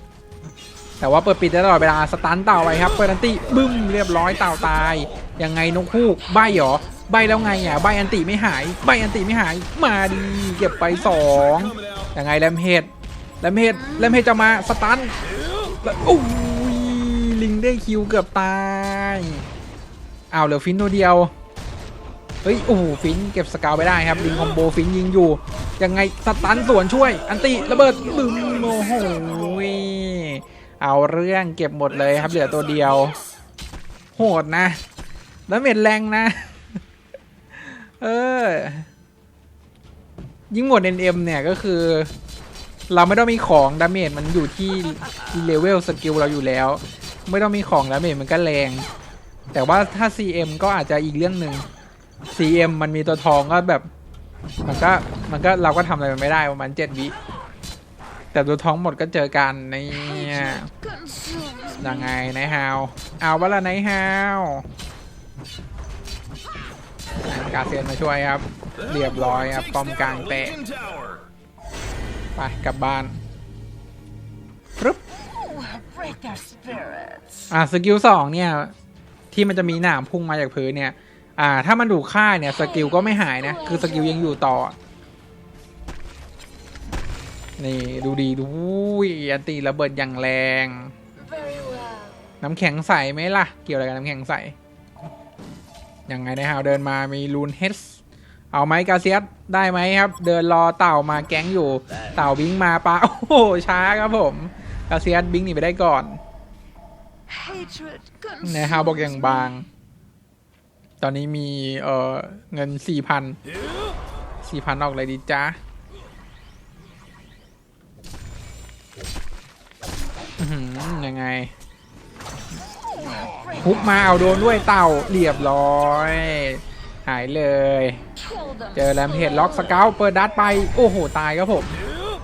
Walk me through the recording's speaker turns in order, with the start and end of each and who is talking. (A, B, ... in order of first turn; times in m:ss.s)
0:01.0-0:12.9 A
0:13.4-0:15.2 A
0:15.8-0:19.4 A
0:20.3-0:21.3 A
0:22.4-0:33.2 A
0:34.2-0:34.8 A
0:35.5-0:36.8 A
0:37.5-0:38.9 A
0:40.5-0:42.1 A
0:42.9-0:48.9 A
0:49.5-0:51.7 A
0:52.3-0:53.9 A
0:54.7-0:57.2 A
0:58.3-1:00.7 A
1:01.1-1:01.6 B
1:01.8-1:04.7 A
1:07.3-1:10.6 A
1:12.4-1:13.2 A
1:17.5-1:18.7 A
1:19.3-1:24.8 A
1:27.6-1:30.9 A
1:31.4-1:32.1 B
1:32.4-1:34.5 A
1:36.1-1:38.0 A
1:38.5-1:46.2 A
1:47.4-1:48.2 B
1:48.4-1:49.7 A
1:51.0-1:53.4 A
1:54.4-1:55.6 A
2:00.4-2:01.5 A
2:03.6-2:08.0 A
2:08.7-2:11.7 A